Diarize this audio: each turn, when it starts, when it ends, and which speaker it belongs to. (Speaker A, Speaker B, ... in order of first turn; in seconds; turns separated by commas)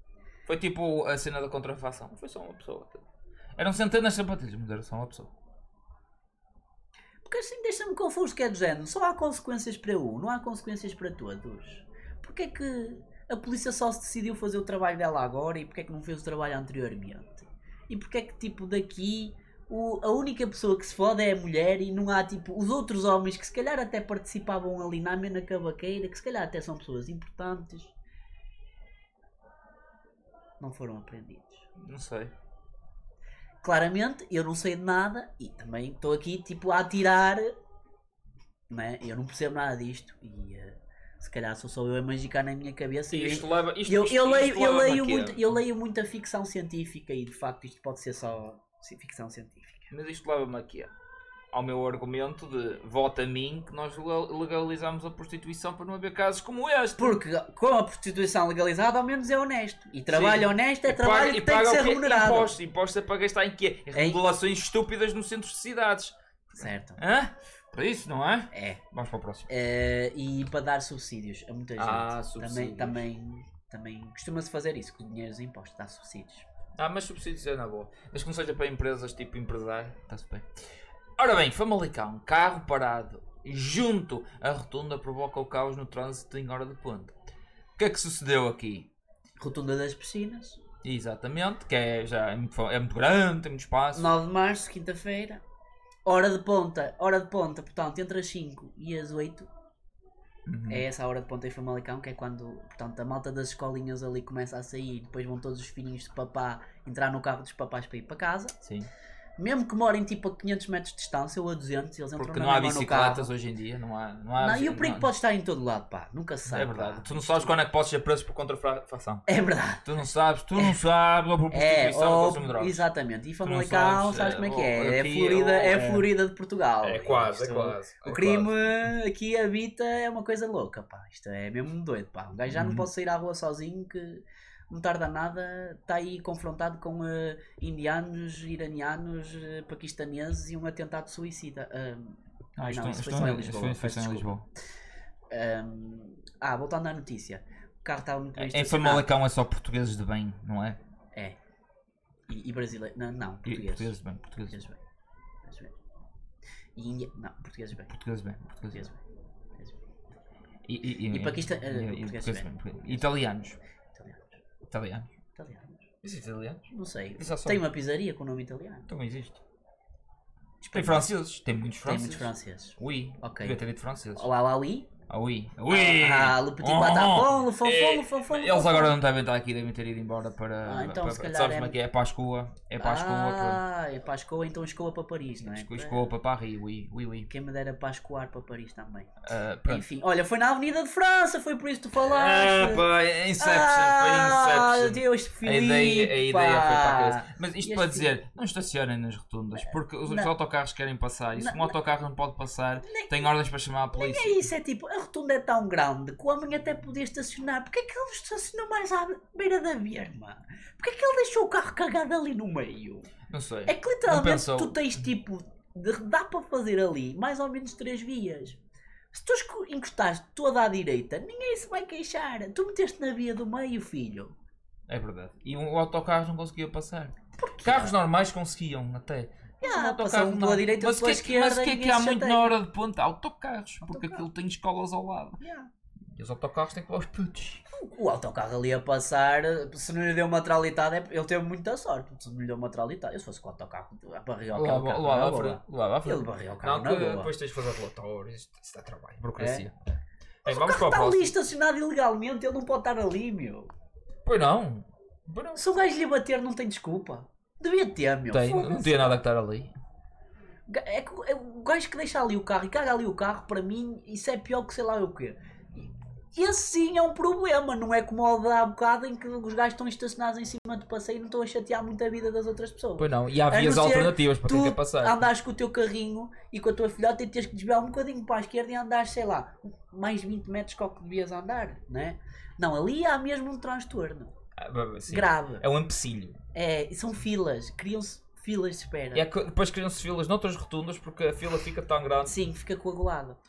Speaker A: 0.5-3.0, Speaker A: 3.6-5.3, Speaker B: 7.2-27.9, Speaker B: 30.6-31.7, Speaker A: 31.8-32.3, Speaker B: 33.6-37.5, Speaker B: 38.7-49.9, Speaker A: 43.1-45.5, Speaker A: 49.9-50.9, Speaker A: 51.5-57.2, Speaker B: 57.0-62.5, Speaker A: 60.1-69.5, Speaker B: 63.9-64.2, Speaker B: 66.5-67.0, Speaker B: 68.5-68.8, Speaker B: 69.5-76.5, Speaker A: 71.8-73.0, Speaker A: 76.8-80.5, Speaker A: 81.2-87.1, Speaker A: 87.8-88.9, Speaker B: 89.4-90.6, Speaker A: 90.8-94.1, Speaker B: 94.0-95.4, Speaker B: 96.1-99.5, Speaker A: 100.5-100.9, Speaker B: 100.7-108.6, Speaker A: 108.7-108.9, Speaker B: 109.4-113.3, Speaker A: 112.2-115.1, Speaker B: 114.4-117.5, Speaker A: 116.5-119.3, Speaker B: 119.3-119.9, Speaker A: 119.8-122.8, Speaker B: 121.5-144.3, Speaker A: 123.4-126.1, Speaker A: 126.8-128.5, Speaker A: 132.5-132.9, Speaker A: 142.6-144.5, Speaker B: 145.3-149.1, Speaker A: 148.4-150.8, Speaker B: 152.3-153.9, Speaker A: 153.5-154.6, Speaker B: 154.5-154.8, Speaker B: 155.4-155.8, Speaker B: 156.8-157.9, Speaker A: 157.9-158.9, Speaker B: 158.7-159.0, Speaker A: 160.7-163.6, Speaker B: 161.1-163.1, Speaker B: 163.9-164.4, Speaker A: 164.7-165.1, Speaker B: 165.4-165.9, Speaker A: 166.0-166.7, Speaker B: 166.7-168.9, Speaker A: 167.2-167.6, Speaker A: 168.9-169.4, Speaker B: 170.6-171.1, Speaker A: 170.7-174.3, Speaker B: 171.8-173.6, Speaker B: 174.2-174.9, Speaker A: 175.1-183.6, Speaker B: 175.7-178.9, Speaker B: 180.7-181.8, Speaker B: 182.8-186.1, Speaker A: 185.4-187.3, Speaker B: 187.3-189.1, Speaker A: 189.3-189.8, Speaker B: 189.7-192.8, Speaker A: 192.0-204.4, Speaker B: 193.4-198.1, Speaker B: 201.4-201.7, Speaker B: 202.8-203.3, Speaker B: 203.9-213.1, Speaker A: 213.3-214.8, Speaker B: 213.7-218.6, Speaker B: 219.1-224.3, Speaker A: 224.9-235.4, Speaker B: 227.4-227.9, Speaker B: 229.6-232.6, Speaker B: 233.8-234.2, Speaker B: 235.4-235.7, Speaker A: 236.2-237.6, Speaker B: 237.7-247.3, Speaker A: 244.5-249.7, Speaker B: 249.4-249.7, Speaker A: 250.4-251.3, Speaker B: 250.5-253.7, Speaker A: 254.2-255.6, Speaker B: 255.6-259.2, Speaker A: 258.3-259.7, Speaker B: 260.7-284.3, Speaker A: 273.0-275.2, Speaker A: 284.6-286.4, Speaker B: 285.1-285.6, Speaker B: 286.5-289.2, Speaker A: 289.1-292.4, Speaker B: 292.2-293.4